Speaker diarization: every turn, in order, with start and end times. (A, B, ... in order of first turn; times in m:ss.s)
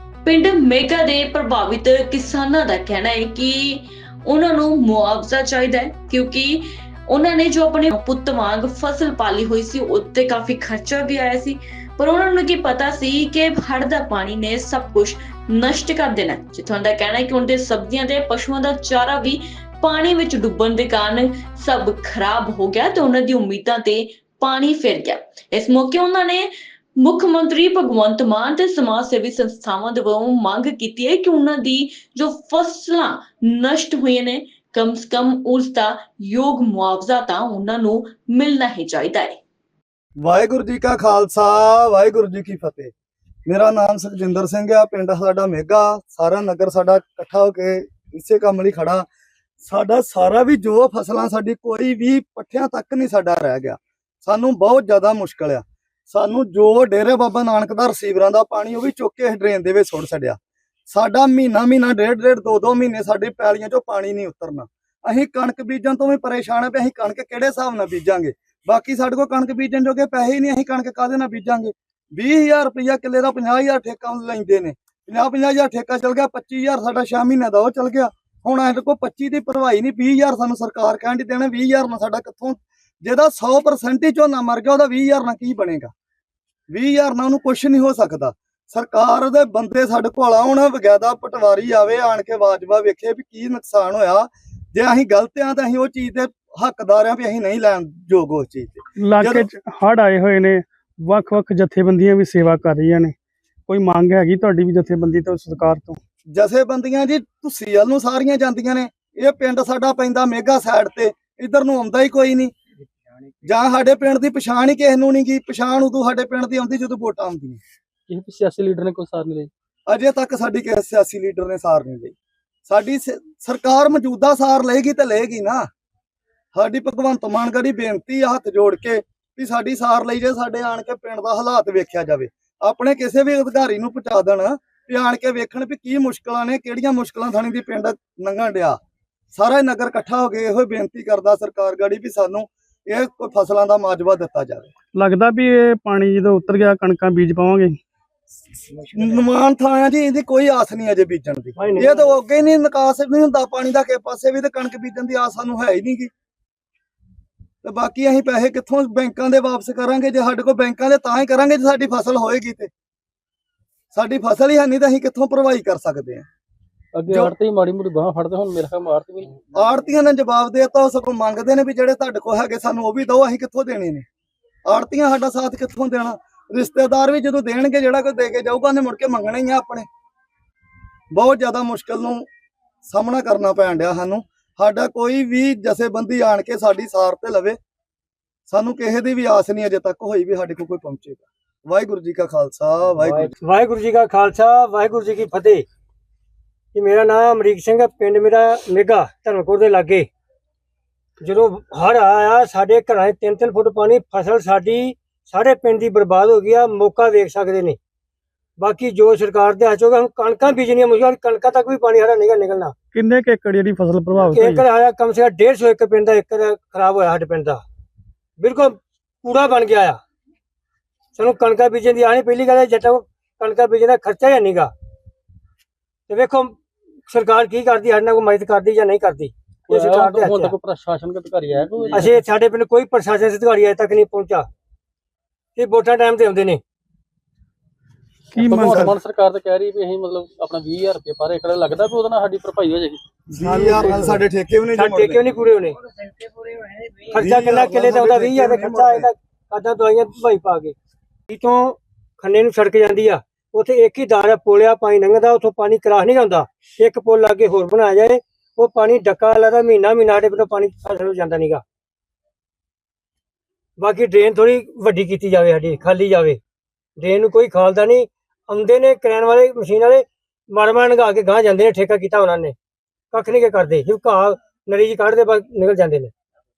0:00.2-0:39.4 A
0:40.2-0:42.9 B
0:43.5-0:49.0 B
0:49.6-1:00.4 B
1:00.9-1:25.9 B
1:26.7-1:39.4 B
1:39.0-1:43.1 C
1:43.7-1:46.0 C
1:46.3-1:52.5 B
1:53.4-1:57.6 B
1:58.1-1:59.5 D
1:59.9-2:02.1 B
2:02.6-2:05.7 B
2:06.5-2:18.8 B
2:19.3-2:24.7 B
2:24.9-2:27.8 C
2:28.7-2:36.1 B
2:31.6-2:32.1 E
2:37.6-2:42.7 B
2:43.9-2:46.2 B
2:46.9-2:49.4 D
2:49.5-2:54.0 B
2:54.7-2:59.8 B
3:01.1-3:02.3 B
3:02.9-3:07.6 B
3:08.5-3:13.3 B
3:13.0-3:15.6 E
3:16.7-3:20.1 E
3:21.2-3:27.8 E
3:28.6-3:32.7 E
3:32.9-3:34.6 C
3:34.3-3:37.6 E
3:38.4-3:40.0 E
3:41.2-3:44.7 E
3:46.1-3:46.6 E
3:47.1-3:50.5 E
3:49.7-3:52.2 D
3:51.9-3:54.4 E
3:55.6-3:56.6 E
3:58.3-3:58.9 C
3:58.4-4:03.0 D
3:58.5-3:58.9 B
4:03.3-4:05.2 B
4:03.4-4:04.2 C
4:04.7-4:05.8 E
4:06.6-4:10.7 E
4:07.1-4:09.1 B
4:11.3-4:21.6 E
4:23.8-4:26.4 E
4:27.0-4:32.5 E
4:33.1-4:36.1 E